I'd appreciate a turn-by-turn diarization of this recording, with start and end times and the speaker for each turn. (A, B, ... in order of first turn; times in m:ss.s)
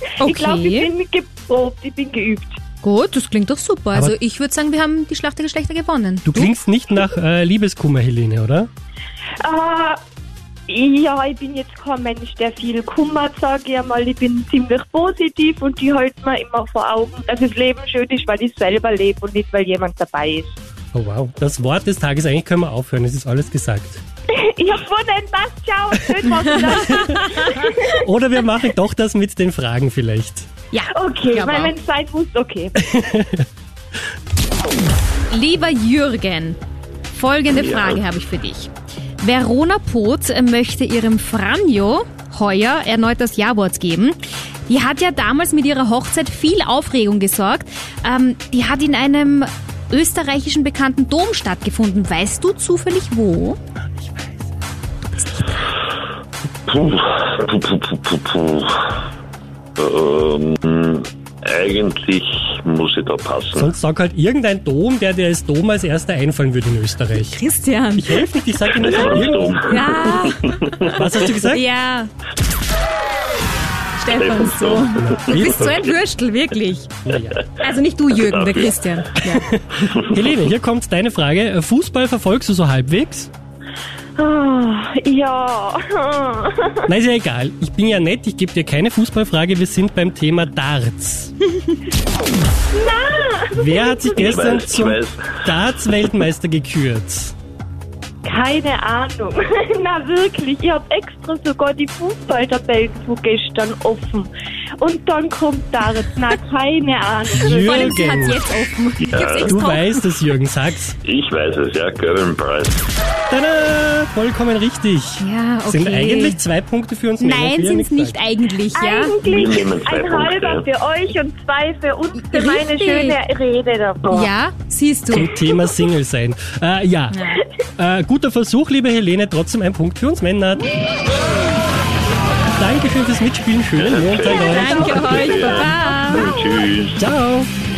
0:00.2-0:02.6 A
0:00.2-0:00.9 B
0:02.8-0:06.5 B
0:06.3-0:08.7 C
0:09.4-0:10.0 A
0:10.7-0:20.5 A
0:20.9-0:24.0 C
0:24.4-0:27.9 A
0:26.7-0:30.5 C
0:30.7-0:31.7 B
0:30.9-0:32.8 A
0:32.8-0:33.4 C
0:35.3-0:36.6 B
0:37.1-0:44.2 B
0:37.5-0:38.0 D
0:44.7-0:53.6 B
0:54.0-0:54.4 C
0:56.7-0:59.0 D
0:59.8-1:03.7 D
1:03.6-1:07.4 C
1:07.3-1:12.1 B
1:08.0-1:09.8 C
1:08.7-1:11.0 D
1:10.9-1:11.6 C
1:14.0-1:17.0 B
1:14.1-1:15.9 D
1:15.0-1:15.4 C
1:17.0-1:17.4 C
1:17.6-1:19.5 B
1:18.1-1:18.8 D
1:19.3-1:23.3 C
1:24.2-1:26.8 A
1:26.8-1:31.3 C
1:32.7-1:34.1 A
1:33.5-1:37.3 C
1:34.2-1:35.2 D
1:38.2-1:48.1 A
1:47.3-1:48.4 C
1:47.4-1:50.1 B
1:49.0-1:49.5 D
1:49.4-1:50.9 C
1:51.0-1:52.9 D
1:53.3-1:58.2 C
1:55.2-1:56.4 B
1:57.2-1:59.1 B
1:58.7-2:04.3 A
1:59.2-2:00.7 D
2:02.3-2:03.2 B
2:04.1-2:05.3 B
2:05.1-2:10.6 C
2:07.1-2:07.4 B
2:12.6-2:15.1 C
2:13.8-2:17.0 D
2:14.3-2:16.3 B
2:14.5-2:16.6 A
2:17.0-2:17.5 C